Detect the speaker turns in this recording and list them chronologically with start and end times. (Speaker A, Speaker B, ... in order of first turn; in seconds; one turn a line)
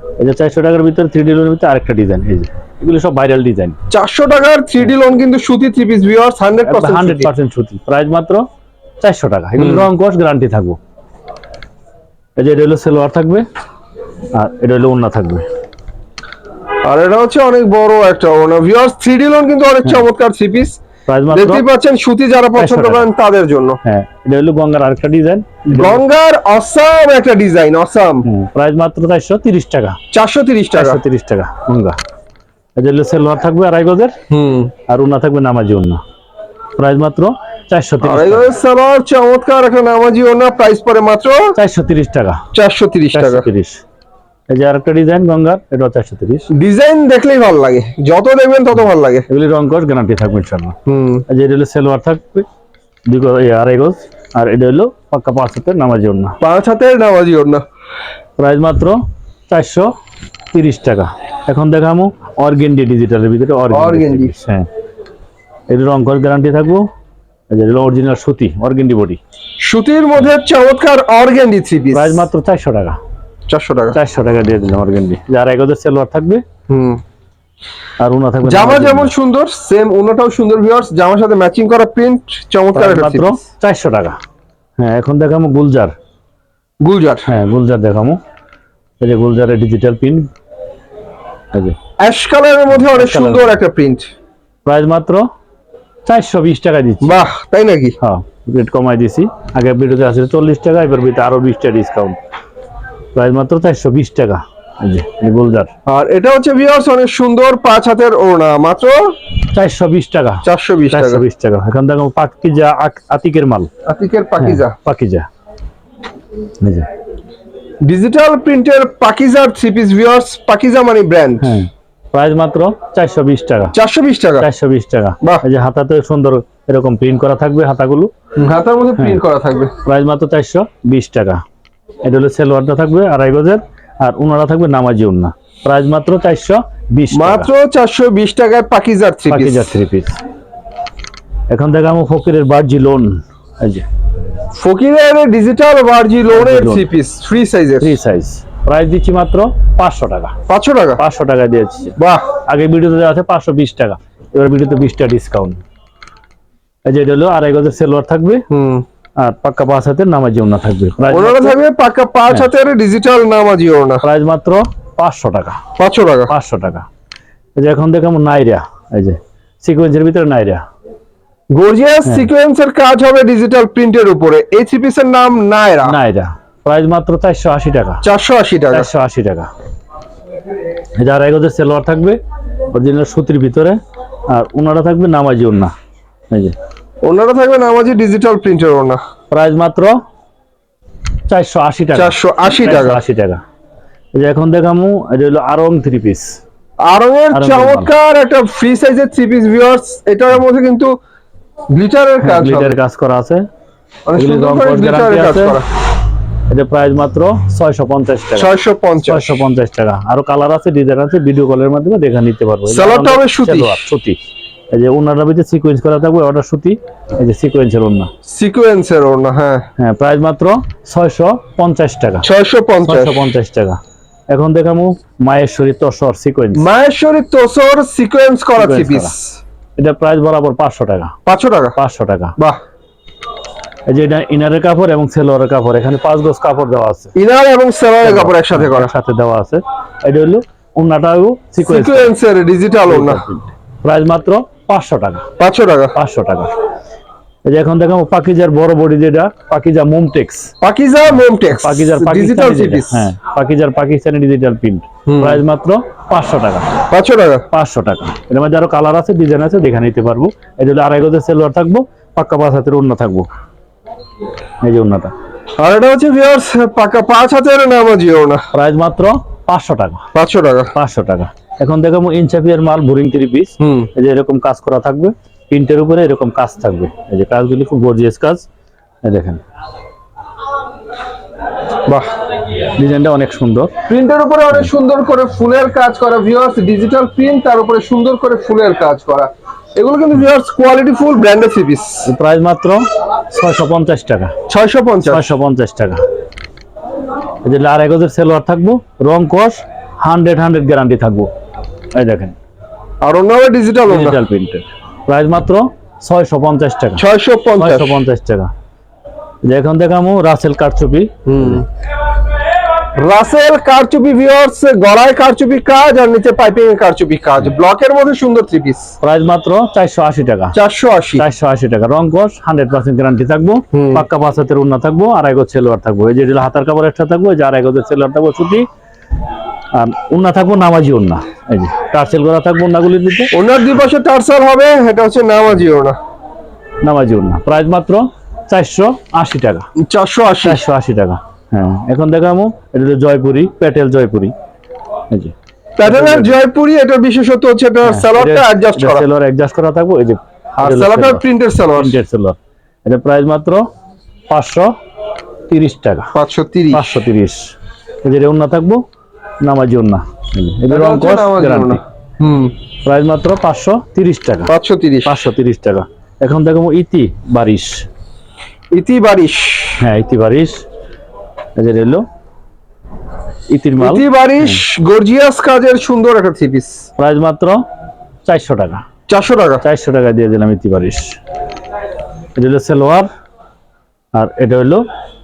Speaker A: 0.2-3.8
Speaker B: 3.9-7.3
Speaker A: 6.7-8.4
Speaker A: 9.0-10.8
Speaker B: 9.6-9.9
Speaker A: 12.4-13.5
Speaker A: 14.3-15.5
Speaker B: 16.9-20.8
Speaker A: 21.1-21.7
Speaker B: 21.3-23.8
Speaker A: 22.6-23.1
Speaker A: 23.9-26.0
Speaker B: 25.7-28.3
Speaker A: 28.2-30.0
Speaker B: 30.1-31.0
Speaker A: 30.7-32.0
Speaker A: 32.8-34.2
Speaker B: 34.3-34.7
Speaker A: 34.9-36.0
Speaker A: 36.8-38.5
Speaker B: 38.0-41.5
Speaker A: 41.6-42.4
Speaker B: 42.5-43.5
Speaker A: 43.1-43.8
Speaker A: 44.5-46.5
Speaker B: 46.5-49.3
Speaker A: 49.3-50.8
Speaker B: 50.9-51.2
Speaker A: 51.3-52.5
Speaker A: 53.1-56.4
Speaker B: 56.4-57.6
Speaker A: 58.4-59.9
Speaker A: 60.5-64.7
Speaker B: 63.7-64.3
Speaker A: 65.7-66.9
Speaker A: 67.5-69.2
Speaker B: 69.6-72.3
Speaker A: 71.9-73.0
Speaker B: 73.5-74.0
Speaker A: 73.9-76.4
Speaker B: 76.7-77.0
Speaker A: 78.0-79.1
Speaker B: 78.4-83.4
Speaker A: 82.7-84.2
Speaker A: 84.8-86.0
Speaker B: 86.8-87.3
Speaker A: 87.3-88.2
Speaker A: 89.0-90.3
Speaker A: 91.5-91.8
Speaker B: 92.0-94.1
Speaker A: 92.8-93.6
Speaker A: 94.7-95.3
Speaker A: 96.1-97.2
Speaker B: 97.0-98.0
Speaker A: 98.0-102.2
Speaker A: 103.1-105.7
Speaker B: 105.9-109.1
Speaker A: 109.5-113.7
Speaker B: 110.4-111.2
Speaker B: 113.9-114.8
Speaker A: 114.4-115.3
Speaker A: 116.6-116.9
Speaker B: 117.8-121.6
Speaker A: 121.4-123.7
Speaker B: 123.7-124.5
Speaker A: 124.4-128.1
Speaker B: 128.4-129.7
Speaker A: 129.8-131.4
Speaker A: 132.1-137.5
Speaker B: 137.1-139.8
Speaker A: 139.3-140.2
Speaker A: 141.5-143.9
Speaker B: 144.5-147.9
Speaker A: 146.3-146.9
Speaker A: 147.8-150.3
Speaker B: 150.5-151.0
Speaker A: 151.0-151.9
Speaker B: 152.0-152.3
Speaker A: 152.5-155.6
Speaker A: 156.9-158.4
Speaker B: 158.5-158.8
Speaker A: 159.2-161.6
Speaker B: 161.1-164.1
Speaker A: 164.0-165.6
Speaker B: 165.8-166.3
Speaker A: 166.3-166.9
Speaker A: 167.6-170.6
Speaker B: 171.5-176.0
Speaker A: 175.8-178.0
Speaker B: 178.0-178.9
Speaker A: 178.7-179.5
Speaker A: 181.0-182.2
Speaker A: 182.7-185.7
Speaker A: 186.3-186.6
Speaker B: 187.0-189.0
Speaker A: 189.3-190.0
Speaker A: 191.3-193.4
Speaker B: 191.9-193.0
Speaker A: 194.2-196.4
Speaker B: 196.8-200.9
Speaker A: 197.3-197.9
Speaker B: 201.7-202.8
Speaker A: 202.2-203.4
Speaker B: 204.1-205.7
Speaker A: 204.2-205.6
Speaker A: 206.5-208.5
Speaker B: 208.4-209.4
Speaker A: 209.1-214.2
Speaker B: 212.7-213.9
Speaker A: 214.7-218.1
Speaker B: 218.3-219.7
Speaker A: 219.8-222.3
Speaker B: 222.2-223.2
Speaker A: 222.9-226.6
Speaker B: 226.6-229.3
Speaker A: 228.6-229.1
Speaker A: 229.8-231.1
Speaker B: 231.3-231.8
Speaker A: 231.8-232.3
Speaker A: 233.9-237.1
Speaker B: 237.2-238.9
Speaker A: 238.0-242.1
Speaker B: 241.6-243.2
Speaker A: 242.9-245.3
Speaker B: 245.4-246.0
Speaker A: 245.9-246.5
Speaker A: 247.5-250.5
Speaker B: 250.6-253.1
Speaker A: 251.6-256.7
Speaker B: 255.1-255.4
Speaker B: 256.9-257.4
Speaker A: 257.5-263.3
Speaker A: 264.6-265.1
Speaker B: 265.6-268.4
Speaker A: 268.5-270.0
Speaker B: 270.1-270.7
Speaker A: 270.8-278.5
Speaker B: 273.6-273.9
Speaker A: 279.1-279.4
Speaker A: 282.8-283.8
Speaker B: 283.9-292.1
Speaker A: 292.1-294.3
Speaker B: 294.5-295.3
Speaker A: 295.1-296.0
Speaker A: 297.4-301.3
Speaker A: 301.9-302.4
Speaker B: 303.0-304.2
Speaker A: 303.9-307.0
Speaker B: 307.0-307.9
Speaker A: 307.6-308.5
Speaker A: 309.4-311.6
Speaker B: 311.3-311.7
Speaker B: 313.0-318.9
Speaker A: 319.0-320.6
Speaker B: 320.5-321.2
Speaker A: 321.2-328.7
Speaker B: 323.7-324.1
Speaker A: 329.7-333.3
Speaker B: 333.3-336.0
Speaker A: 336.8-339.7
Speaker B: 339.8-340.6
Speaker A: 340.4-344.3
Speaker A: 345.1-346.4
Speaker B: 345.8-349.0
Speaker A: 347.9-353.7
Speaker B: 350.6-351.9
Speaker A: 354.3-354.7
Speaker A: 355.5-356.1
Speaker B: 356.1-356.9
Speaker A: 356.7-357.5
Speaker A: 358.0-358.8
Speaker A: 359.4-361.8
Speaker B: 360.7-362.6
Speaker A: 362.9-364.5
Speaker B: 364.5-365.2
Speaker A: 365.1-367.9
Speaker B: 368.7-369.8
Speaker A: 369.8-370.6
Speaker A: 371.6-372.0
Speaker A: 373.5-374.6
Speaker B: 373.8-376.9
Speaker A: 377.0-377.6
Speaker A: 378.3-378.9
Speaker B: 379.1-379.6
Speaker A: 379.6-381.2
Speaker A: 382.4-383.1
Speaker A: 384.1-384.9